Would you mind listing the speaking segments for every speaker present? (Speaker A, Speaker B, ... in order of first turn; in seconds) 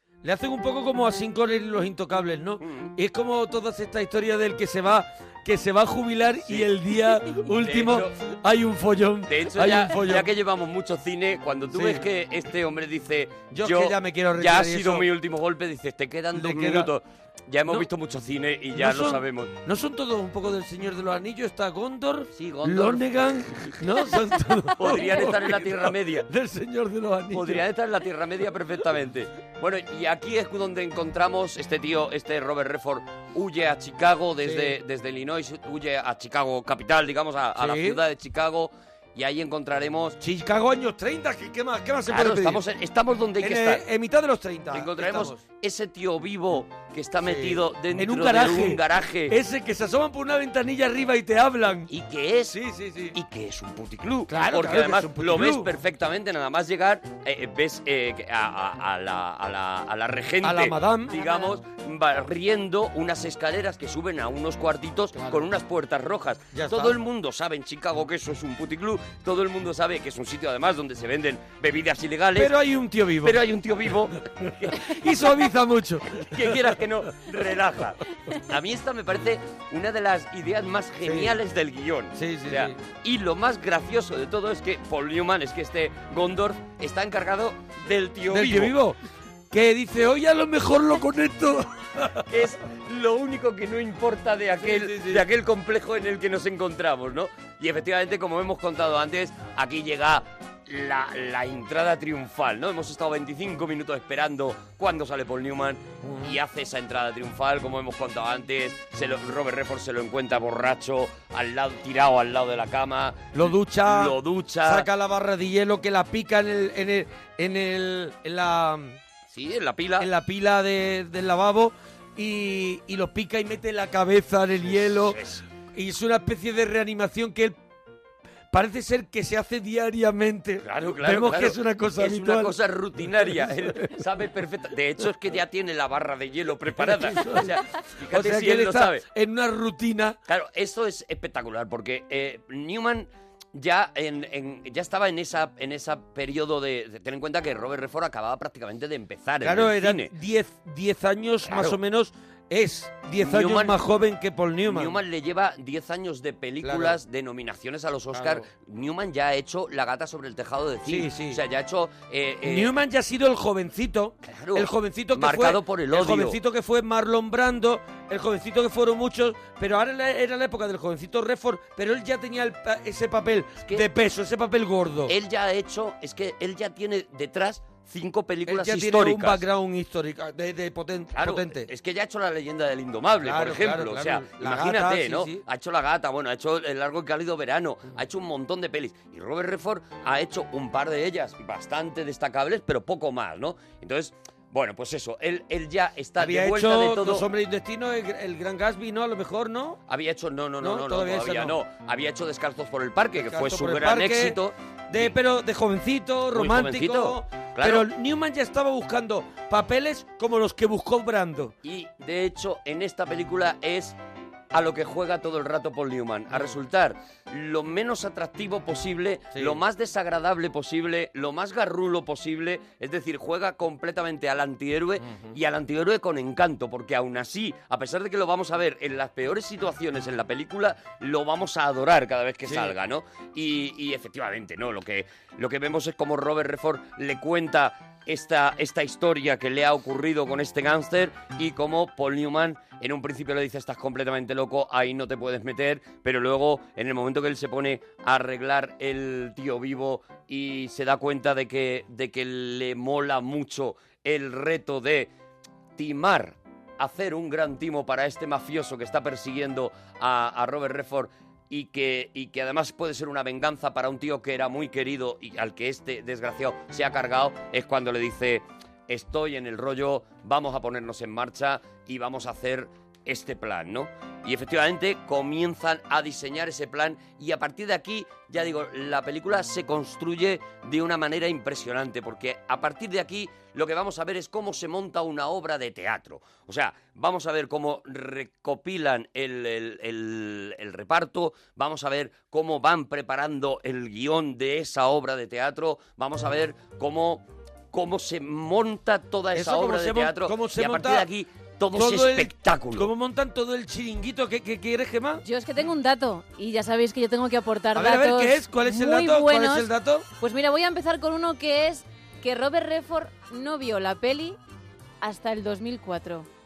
Speaker A: 0.2-10.3, 11.7-12.1, 13.5-15.1, 16.3-16.9, 18.7-27.6, 34.4-34.8, 37.6-38.0, 40.2-42.6, 43.4-45.4, 47.2-51.9, 52.5-53.1, 54.3-55.7, 60.4-61.2, 65.1-65.5, 66.5-67.0, 72.3-73.4, 74.4-76.8, 81.0-81.4, 82.1-82.8, 88.3-89.0, 89.5-92.3, 94.6-95.3, 106.0-106.4, 113.3-119.0, 120.0-125.2, 125.7-127.6, 128.5-132.6, 133.2-133.5, 136.8-137.6, 138.1-140.2, 149.4-155.0, 156.6-157.0, 158.1-158.5, 160.8-161.4, 162.4-175.1, 178.4-181.7, 183.2-185.4, 196.2-199.8, 200.6-201.6, 203.2-204.4, 204.9-211.6, 219.3-219.6, 225.0-225.3, 232.4-232.7, 299.3-301.1, 301.7-305.2, 307.7-310.1
Speaker B: 2.6-2.9, 7.5-8.1, 9.3-19.5, 22.3-23.7, 24.8-26.3, 27.3-40.2, 42.1-43.8, 44.7-49.4, 51.9-52.6, 53.1-72.5, 73.2-75.1, 76.2-88.7, 92.3-114.9, 119.3-120.1, 124.8-125.4, 130.6-139.0, 140.3-150.1, 151.5-151.8, 153.2-153.8, 154.7-162.7, 164.3-166.4, 175.1-179.4, 181.1-197.3, 199.9-205.1, 206.3-207.8, 211.6-213.9, 214.5-255.1, 255.8-302.9
Speaker C: 61.1-61.6, 305.2-314.4, 315.0-316.3